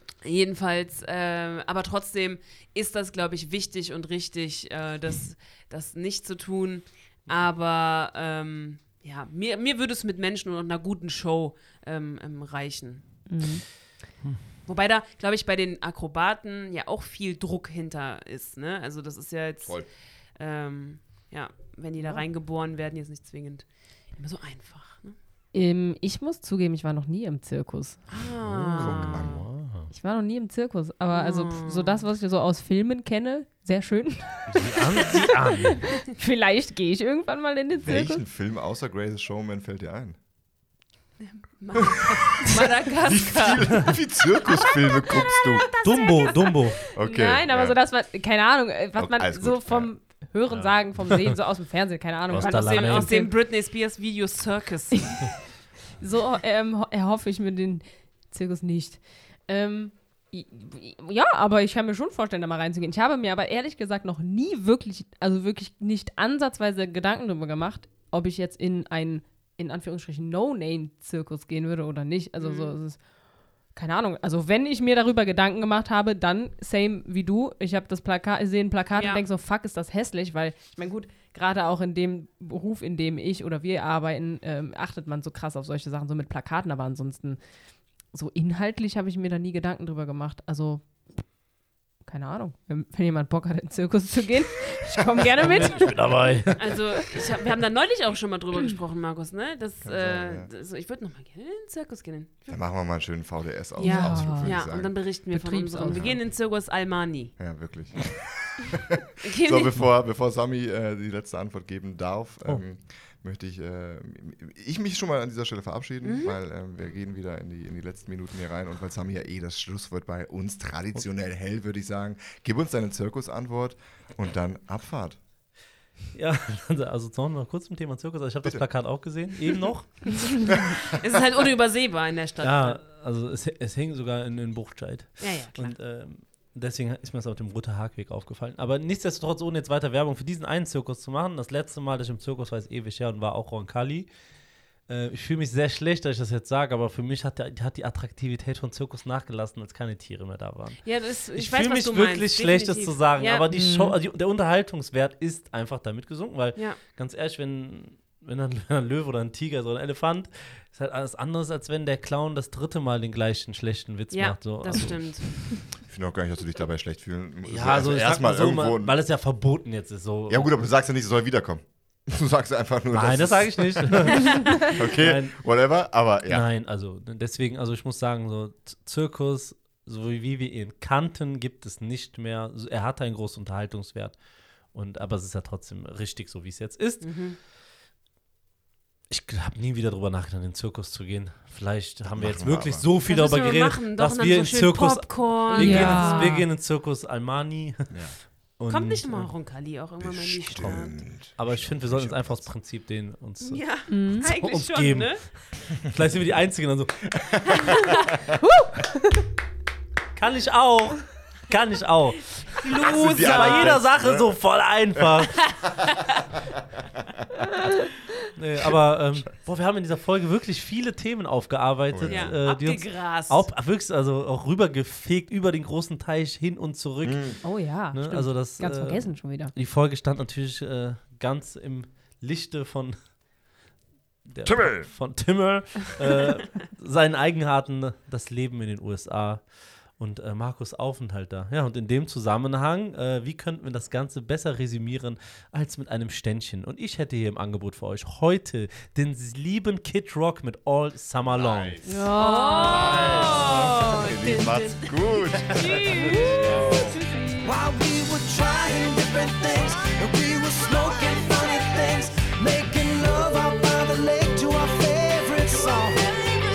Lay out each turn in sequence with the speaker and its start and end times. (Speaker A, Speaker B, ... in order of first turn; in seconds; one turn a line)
Speaker A: 0.2-13.0
Speaker B: 13.3-13.6
Speaker A: 14.7-25.1
Speaker B: 22.0-22.2
Speaker B: 25.5-28.0
Speaker A: 28.1-29.4
Speaker C: 28.4-29.9
Speaker D: 28.7-29.5
Speaker B: 29.9-38.2
Speaker A: 31.1-32.0
Speaker C: 34.5-35.9
Speaker D: 37.8-40.2
Speaker A: 41.2-43.9
Speaker D: 41.7-45.7
Speaker B: 44.5-53.3
Speaker A: 45.5-46.6
Speaker C: 45.8-46.8
Speaker D: 46.9-47.8
Speaker D: 49.0-49.9
Speaker C: 50.5-51.4
Speaker C: 52.3-53.1
Speaker A: 52.4-55.2
Speaker B: 56.0-73.0
Speaker A: 72.4-72.7
Speaker B: 73.7-87.4
Speaker A: 78.9-79.2
Speaker B: 88.1-90.9
Speaker B: 92.0-96.6
Speaker C: 95.4-96.8
Speaker A: 96.5-102.6
Speaker D: 99.8-100.5
Speaker D: 102.5-105.0
Speaker B: 103.8-104.7
Speaker A: 103.8-107.3
Speaker B: 105.3-106.2
Speaker D: 105.9-106.2
Speaker D: 107.4-125.2
Speaker A: 109.2-109.8
Speaker A: 116.0-116.4
Speaker C: 126.1-130.5
Speaker D: 130.5-130.8
Speaker A: 130.9-132.8
Speaker C: 132.4-144.1
Speaker A: 135.2-135.8
Speaker C: 144.9-165.2
Speaker A: 150.8-153.4
Speaker B: 153.5-153.9
Speaker A: 156.6-156.8
Speaker A: 164.1-165.3
Speaker D: 165.9-169.0
Speaker C: 167.5-170.5
Speaker D: 170.3-176.5
Speaker C: 172.9-175.4
Speaker C: 176.3-184.2
Speaker C: 184.7-187.1
Speaker A: 187.0-187.4
Speaker C: 189.1-197.9
Speaker D: 192.0-192.8
Speaker A: 193.0-196.4
Speaker B: 195.5-196.4
Speaker D: 197.9-198.2
Speaker C: 198.6-199.3
Speaker A: 198.7-201.0
Speaker D: 200.0-202.5
Speaker C: 201.4-207.6
Speaker A: 203.4-205.3
Speaker B: 203.9-204.3
Speaker D: 207.2-208.3
Speaker A: 207.8-208.1
Speaker B: 208.4-209.2
Speaker C: 210.1-215.5
Speaker A: 212.5-213.8
Speaker D: 212.8-214.4
Speaker A: 215.4-216.2
Speaker C: 218.3-233.0
Speaker D: 221.9-222.3
Speaker A: 222.1-223.5
Speaker D: 227.0-227.4
Speaker B: 227.4-229.5
Speaker C: 234.2-251.8
Speaker D: 234.4-234.9
Speaker D: 251.3-251.9
Speaker B: 251.8-253.4
Speaker A: 251.9-257.5
Speaker D: 252.6-257.0
Speaker E: 257.4-266.2